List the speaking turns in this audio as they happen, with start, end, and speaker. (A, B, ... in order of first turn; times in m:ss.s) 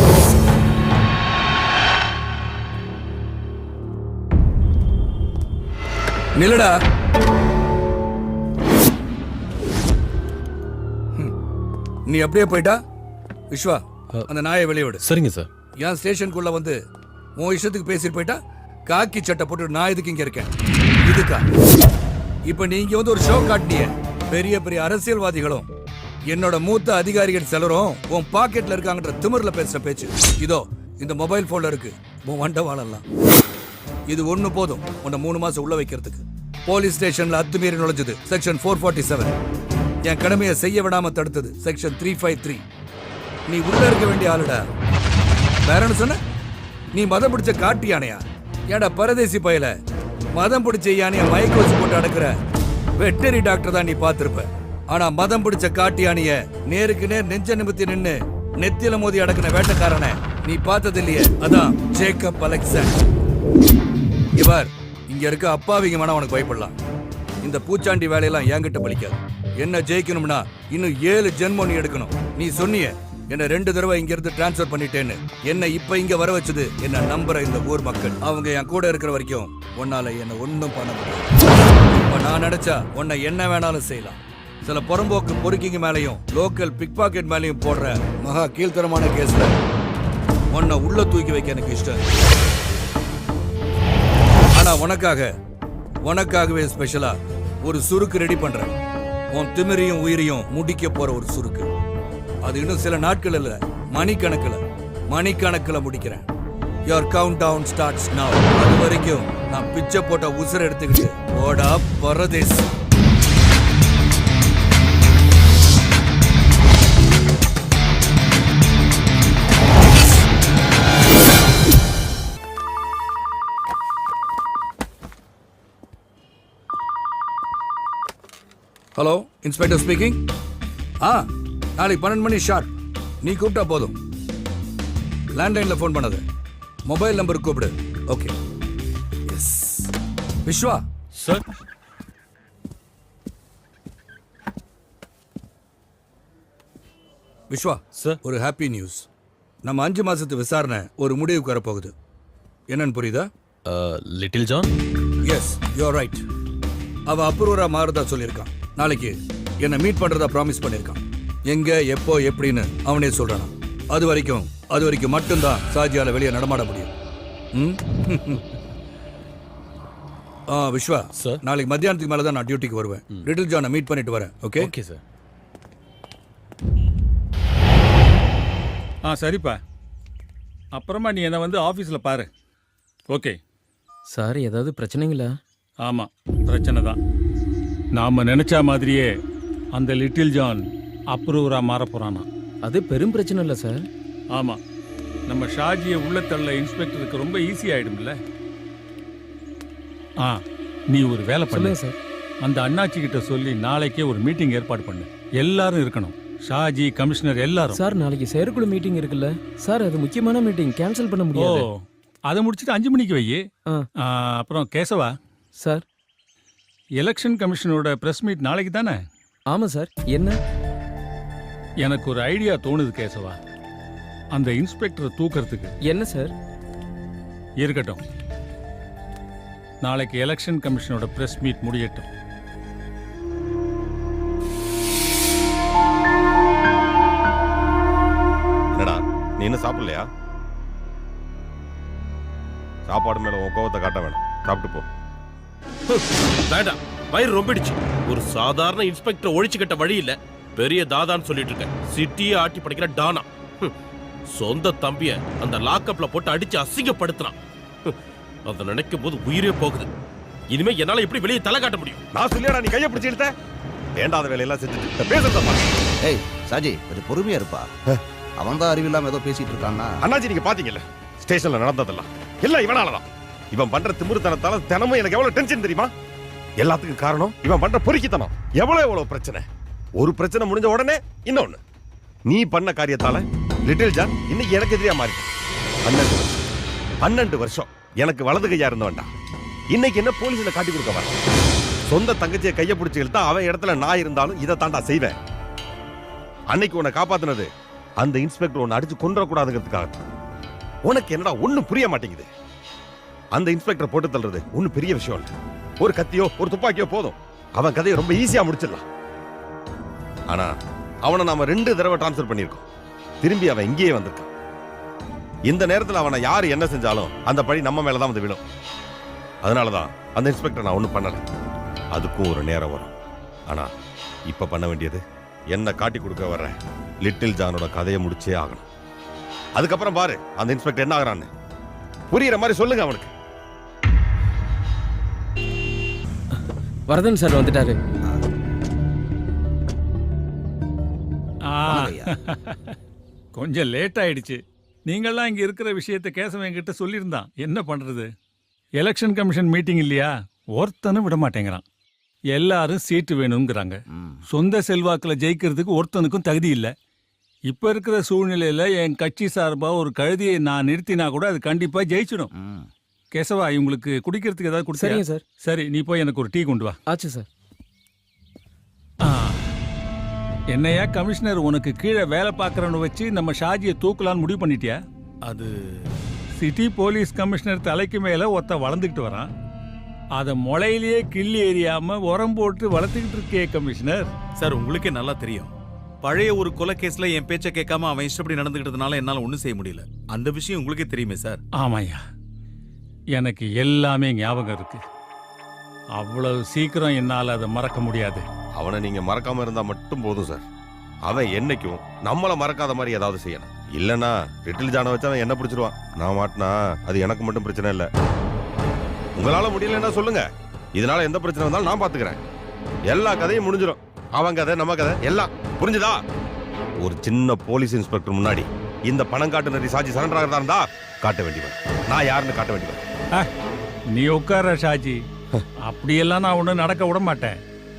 0:06.4-0:06.7 A
0:12.1-0:12.8 A
0:13.5-0:15.0 A
0:15.0-0:15.5 B
0:15.8-0:16.8 A
0:17.4-0:20.5 A
0:21.0-0:21.4 A
0:22.5-0:25.7 A
0:26.3-0:33.0 A
0:34.1-0:39.4 A
0:40.0-0:42.6 A
0:43.5-0:44.6 A
0:45.6-0:46.2 A
0:46.9-0:49.7 A
0:50.3-0:52.4 A
0:53.0-1:03.0 A
1:04.4-1:06.7 A
1:07.4-1:21.3 A
1:22.1-1:29.6 A
1:30.5-1:32.0 A
1:34.5-1:35.3 A
1:36.0-1:38.8 A
1:39.3-1:41.7 A
1:42.4-1:46.3 A
1:46.9-1:52.7 A
2:08.9-2:10.2 A
2:11.8-2:12.7 A
2:13.2-2:14.0 A
2:15.3-2:16.2 A
2:16.9-2:18.3 A
2:19.3-2:19.9 A
2:20.4-2:20.8 A
2:27.5-2:29.1 A
2:29.6-2:31.9 A
2:32.7-2:33.3 A
2:33.7-2:34.7 B
2:35.2-2:36.2 A
2:37.1-2:46.9 A
2:47.5-2:48.4 A
2:50.5-2:54.7 A
2:51.2-2:51.4 B
2:54.6-2:55.0 B
2:59.0-2:59.6 C
3:00.7-3:02.3 C
3:03.1-3:03.4 C
3:04.1-3:05.4 D
3:05.8-3:07.0 C
3:07.9-3:09.1 C
3:09.7-3:12.3 C
3:12.6-3:13.8 D
3:14.3-3:14.6 C
3:15.3-3:18.2 C
3:20.9-3:21.8 C
3:21.5-3:22.0 D
3:22.4-3:27.8 C
3:27.7-3:31.7 D
3:31.3-3:33.4 C
3:34.0-3:35.1 C
3:35.6-3:35.8 D
3:37.0-3:39.0 C
3:39.5-3:40.4 D
3:41.8-3:43.4 C
3:44.3-3:45.7 C
3:45.8-3:46.3 D
3:47.6-3:48.0 C
3:49.8-3:52.1 C
3:58.7-4:00.1 E
4:02.9-4:04.9 E
4:05.9-4:13.7 F
4:14.3-4:19.9 F
4:20.5-4:22.0 F
4:22.1-4:23.3 E
4:24.0-4:25.7 E
4:26.0-4:27.7 G
4:28.4-4:30.0 G
4:30.0-4:35.9 E
4:36.6-4:39.4 E
4:40.0-4:41.6 E
4:42.3-4:45.3 E
4:45.8-4:46.4 E
4:47.0-4:49.1 E
4:49.7-4:51.1 E
4:51.9-4:55.2 E
4:56.5-4:57.5 E
4:58.0-5:00.0 E
5:00.8-5:02.3 E
5:03.3-5:08.8 E
5:10.3-5:12.7 E
5:13.2-5:14.3 E
5:15.4-5:18.4 E
5:19.4-5:21.2 E
5:21.9-5:22.9 E
5:24.3-5:28.7 E
5:29.6-5:31.3 E
5:32.1-5:33.1 E
5:36.9-5:37.8 D
5:41.5-5:42.7 C
5:41.7-5:42.1 G
5:43.3-5:48.1 C
5:48.8-5:51.6 C
5:52.3-5:53.8 C
5:53.9-5:54.2 G
5:54.3-5:56.7 C
5:57.5-6:02.3 C
6:02.4-6:02.7 G
6:03.1-6:06.8 C
6:04.7-6:05.2 D
6:06.9-6:07.3 D
6:09.0-6:09.5 C
6:10.5-6:14.8 C
6:15.2-6:15.5 H
6:16.4-6:19.3 C
6:20.2-6:24.1 C
6:24.4-6:31.4 H
6:31.6-6:32.0 C
6:33.1-6:34.8 C
6:36.0-6:38.2 C
6:38.6-6:40.4 E
6:41.0-6:47.9 E
6:49.2-6:52.2 E
6:52.9-6:56.0 E
6:56.8-7:02.8 E
7:03.9-7:05.0 C
7:05.6-7:07.4 C